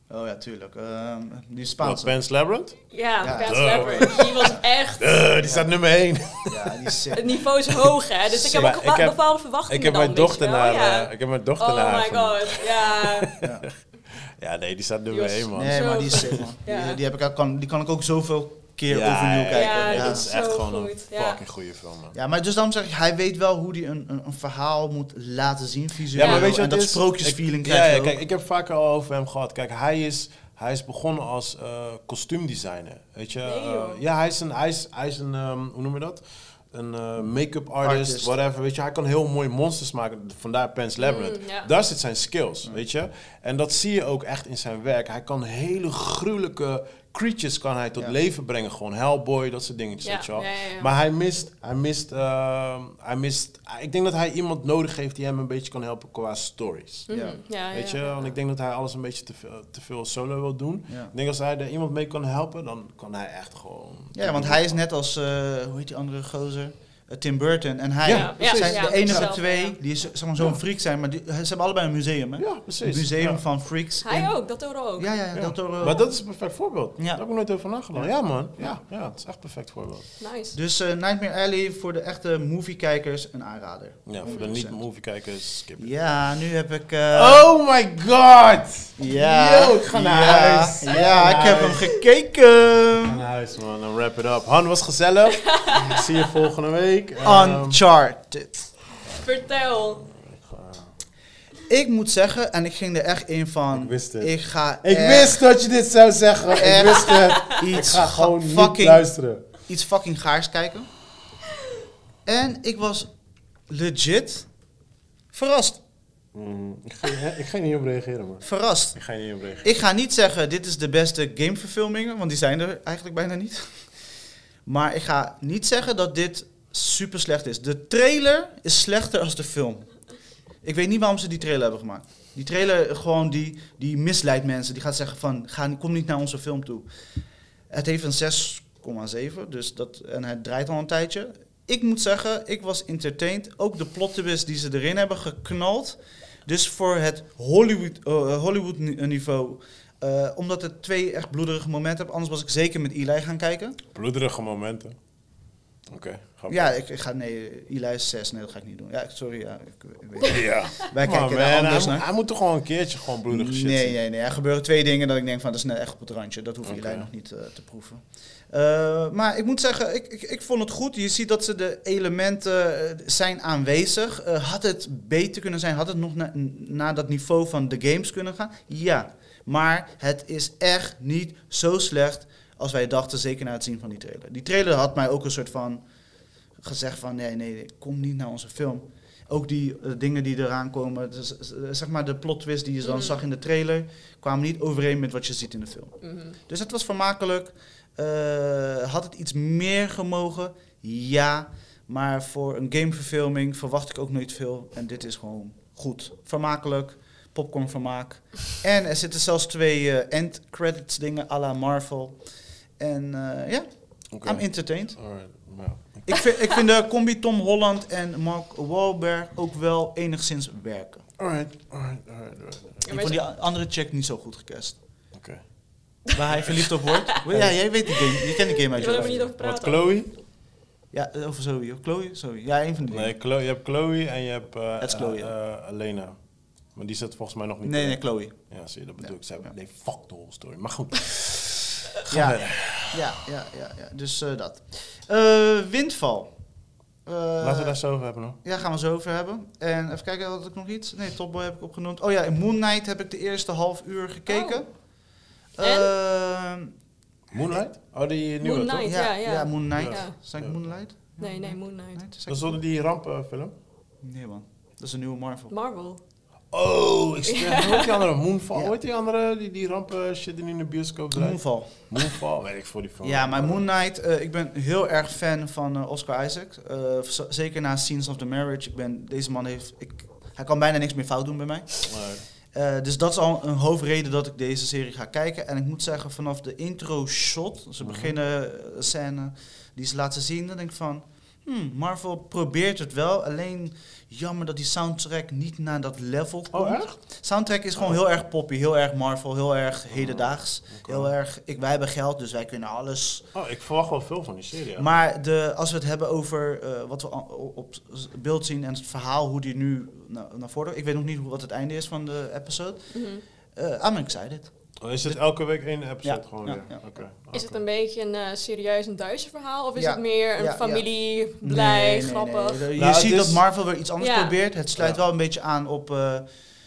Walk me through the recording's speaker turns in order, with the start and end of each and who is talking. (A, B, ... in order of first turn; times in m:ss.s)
0:00.1-0:02.2 A
0:01.8-0:02.8 B
0:02.9-0:05.2 C
0:03.2-0:04.6 A
0:03.4-0:06.9 B
0:05.4-0:05.7 A
0:06.4-0:07.4 A
0:07.1-0:13.4 C
0:07.7-0:16.4 B
0:13.4-0:13.7 A
0:15.1-0:17.0 C
0:15.5-0:20.3 A
0:18.9-0:22.2 B
0:19.5-0:21.4 C
0:22.1-0:28.2 A
0:26.1-0:57.1 B
0:26.2-0:26.5 C
0:33.4-0:34.0 C
0:37.8-0:38.3 A
0:41.0-0:41.7 C
0:50.0-0:50.9 C
0:57.1-0:58.1 C
0:57.1-0:57.4 A
0:57.7-1:04.8 B
1:04.1-1:14.4 A
1:08.0-1:09.3 B
1:08.1-1:09.8 C
1:12.4-1:13.4 B
1:14.0-1:15.1 C
1:15.0-1:16.0 A
1:15.3-1:20.1 B
1:17.0-1:18.8 A
1:20.2-1:20.6 C
1:20.5-1:24.8 A
1:24.0-1:25.9 B
1:25.8-1:27.4 A
1:27.1-1:31.9 B
1:29.0-1:33.2 A
1:33.0-1:37.8 B
1:35.4-1:36.0 C
1:37.2-1:38.7 A
1:39.1-1:40.0 C
1:40.1-1:40.9 B
1:41.7-1:45.4 A
1:43.7-1:49.5 B
1:46.5-1:50.9 A
1:47.1-1:47.6 C
1:52.2-1:53.1 A
1:53.7-1:54.5 A
1:55.3-1:55.8 A
1:56.3-1:59.7 B
1:58.4-1:59.0 A
1:59.6-2:03.9 A
2:04.6-2:09.9 A
2:10.6-2:16.9 A
2:17.7-2:33.8 A
2:33.9-2:35.0 B
2:35.9-2:36.7 B
2:36.5-2:42.1 A
2:40.2-2:44.0 B
2:43.3-3:05.8 A
2:46.6-2:47.1 B
3:06.6-3:32.2 A
3:12.8-3:13.2 C
3:16.0-3:16.4 C
3:32.8-3:33.6 A
3:34.1-3:36.2 B
3:34.2-3:35.0 A
3:36.1-3:41.0 A
3:41.2-3:42.8 B
3:42.8-3:43.2 C
3:42.9-3:44.8 A
3:45.1-3:45.4 B
3:46.1-3:49.3 A
3:46.9-3:47.3 C
3:47.9-3:49.9 C
3:48.8-3:50.1 B
3:50.9-3:53.1 A
3:52.9-3:56.2 B
3:54.8-3:55.3 A
3:56.7-4:03.2 B
3:57.6-3:58.4 A
4:02.1-4:06.3 A
4:07.0-4:07.8 A
4:07.4-4:08.4 B
4:08.4-4:14.7 A
4:14.3-4:14.6 C
4:15.6-4:16.7 A
4:15.6-4:15.9 C
4:17.3-4:18.9 B
4:18.4-4:20.1 C
4:18.8-4:22.6 A
4:19.8-4:20.6 B
4:21.2-4:22.0 C
4:22.3-4:23.5 B
4:24.0-4:25.5 A
4:25.5-4:26.0 C
4:26.5-4:33.6 B
4:27.3-4:28.0 C
4:31.1-4:31.9 A
4:33.0-4:41.9 A
4:41.8-4:42.2 B
4:42.5-5:03.2 A
4:47.8-4:48.1 B
4:56.5-4:57.0 B
4:59.9-5:01.1 B
5:03.3-5:04.9 B
5:04.8-5:12.9 A
5:12.9-5:13.2 C
5:13.5-5:14.5 A
5:14.8-5:17.6 B
5:16.0-5:16.8 A
5:17.3-5:22.7 C
5:19.8-5:20.9 A
5:21.4-5:26.2 A
5:22.8-5:23.4 B
5:24.0-5:24.4 C